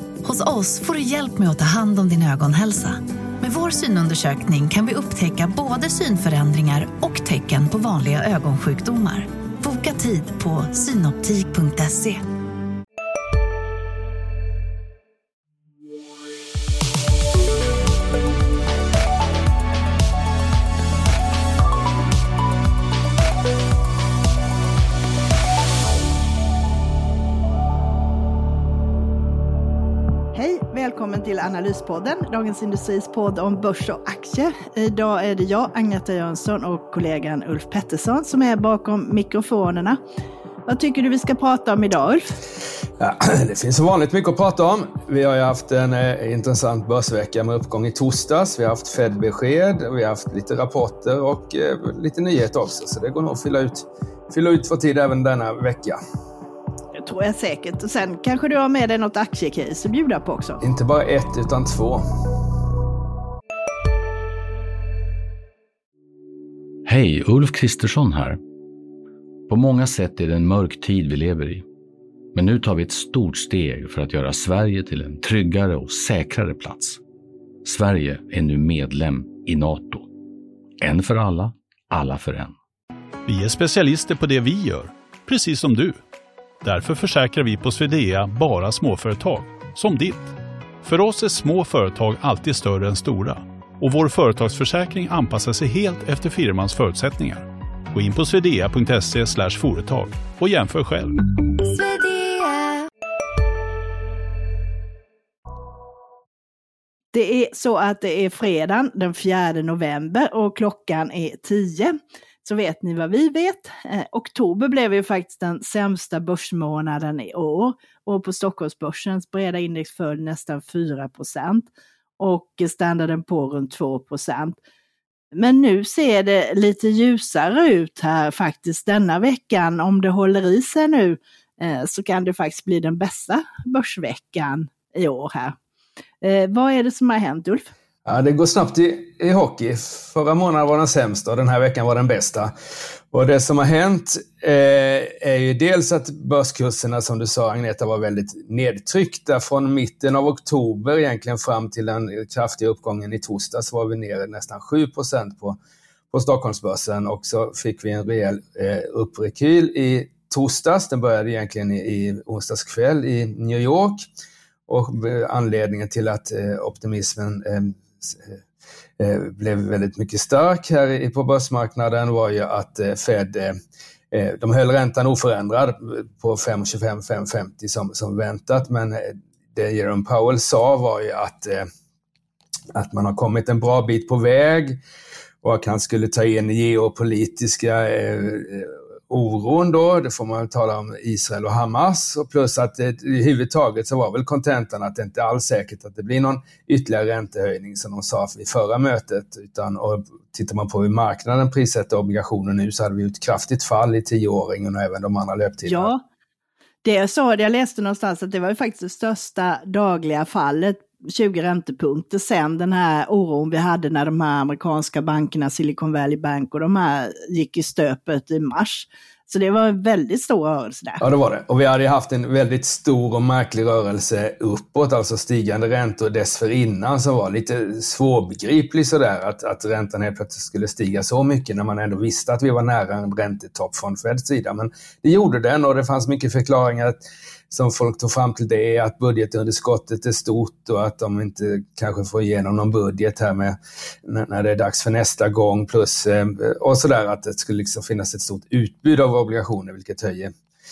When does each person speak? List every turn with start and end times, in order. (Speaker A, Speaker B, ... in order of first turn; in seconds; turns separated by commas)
Speaker A: 0.2-12.2, Speaker B: 30.3-40.0, Speaker B: 40.7-42.4, Speaker C: 43.0-56.0, Speaker B: 57.0-60.6, Speaker C: 60.6-62.1, Speaker D: 66.9-68.4, Speaker D: 69.5-71.7, Speaker D: 72.3-77.0, Speaker D: 77.6-80.1, Speaker D: 80.8-82.6, Speaker E: 83.3-86.0, Speaker E: 86.6-90.3, Speaker E: 90.8-101.2, Speaker A: 101.7-102.7, Speaker B: 107.1-124.6, Speaker B: 125.3-135.6, Speaker B: 136.2-137.7, Speaker C: 138.1-142.5, Speaker C: 143.1-155.6, Speaker C: 156.1-164.1, Speaker C: 164.7-168.4, Speaker C: 169.0-173.6, Speaker C: 174.1-181.7, Speaker C: 182.7-184.8, Speaker C: 185.4-205.9, Speaker B: 205.7-206.0, Speaker B: 206.8-221.0, Speaker C: 221.0-250.3